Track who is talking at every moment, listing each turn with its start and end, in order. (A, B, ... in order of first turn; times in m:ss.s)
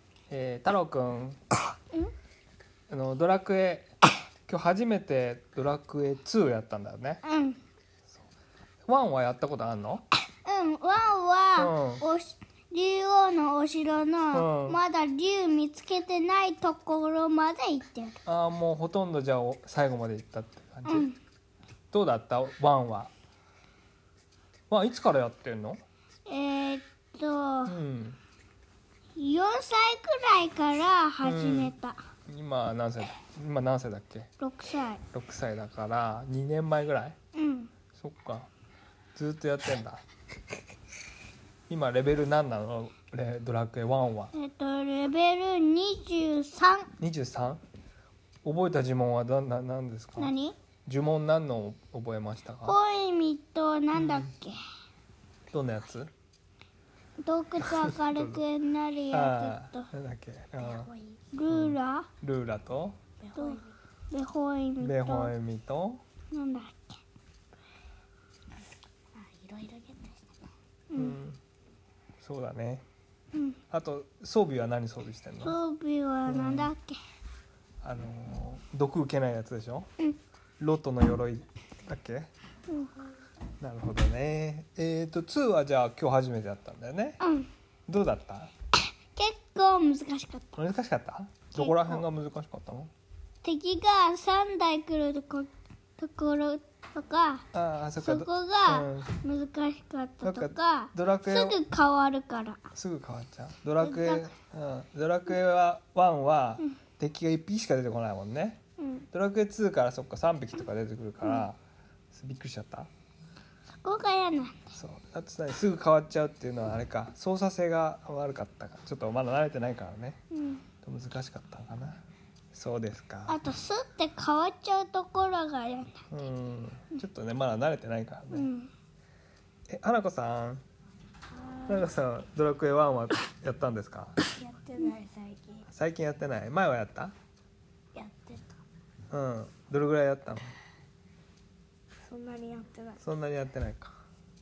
0:00.3-0:01.4 A
0:02.9-0:03.9 A
0:04.5-0:07.2 A
0:07.2-0:07.6 B
0:08.9-0:10.0 A
0:10.4-0:18.2 B
0:11.6-0:12.0 A
0:14.3-0:14.8 A
0:18.2-0:21.1 A
0:20.8-0:21.2 B
0:21.9-0:23.1 A
0:24.7-0:25.8 A
0:26.2-0:27.7 B
0:27.6-0:28.2 A
0:29.2-0:32.0 B
0:31.2-0:31.7 A
0:32.3-0:34.3 A
0:34.4-0:35.0 B
0:35.1-0:37.2 A
0:37.3-0:37.7 B
0:38.0-0:38.5 A
0:39.1-0:40.0 A
0:41.7-0:44.3 A
0:44.3-0:46.9 B
0:47.0-0:47.6 A
0:48.4-0:50.3 A
0:50.2-0:50.6 B
0:50.8-0:52.8 A
0:52.6-0:54.6 B
0:53.9-0:54.3 A
0:55.5-0:56.1 A
0:57.2-0:59.9 B
0:57.6-0:58.4 A
0:59.1-1:00.9 A
1:00.7-1:01.2 C
1:01.3-1:02.1 B
1:01.5-1:03.0 A
1:03.2-1:03.6 C
1:03.3-1:05.3 B
1:04.8-1:06.0 A
1:06.3-1:07.0 B
1:09.1-1:10.3 C
1:10.9-1:11.2 B
1:10.9-1:11.4 A
1:12.2-1:12.8 A
1:13.3-1:13.6 B
1:13.7-1:15.6 A
1:15.4-1:17.0 B
1:16.3-1:16.7 A
1:17.8-1:19.9 A
1:20.6-1:22.3 A
1:23.6-1:27.2 A
1:27.2-1:27.5 B
1:27.9-1:28.5 A
1:29.1-1:30.6 B
1:30.6-1:32.9 A
1:31.5-1:32.0 B
1:33.4-1:37.5 B
1:37.5-1:39.1 A
1:38.0-1:42.6 B
1:40.2-1:41.6 A
1:42.7-1:48.6 A
1:43.8-1:44.3 B
1:48.8-1:49.1 B
1:49.1-1:51.6 A
1:52.1-1:52.9 A
1:53.8-1:54.7 B
1:54.7-2:00.2 A
2:00.3-2:00.6 B
2:00.8-2:02.0 A
2:02.5-2:03.4 A
2:03.3-2:06.0 B
2:06.1-2:08.5 A
2:08.3-2:08.7 B
2:09.7-2:10.6 A
2:11.4-2:11.8 C
2:11.7-2:14.2 A
2:14.4-2:15.6 C
2:15.7-2:17.1 A
2:17.9-2:18.6 C
2:19.1-2:20.5 A
2:22.1-2:23.0 C
2:23.0-2:23.9 A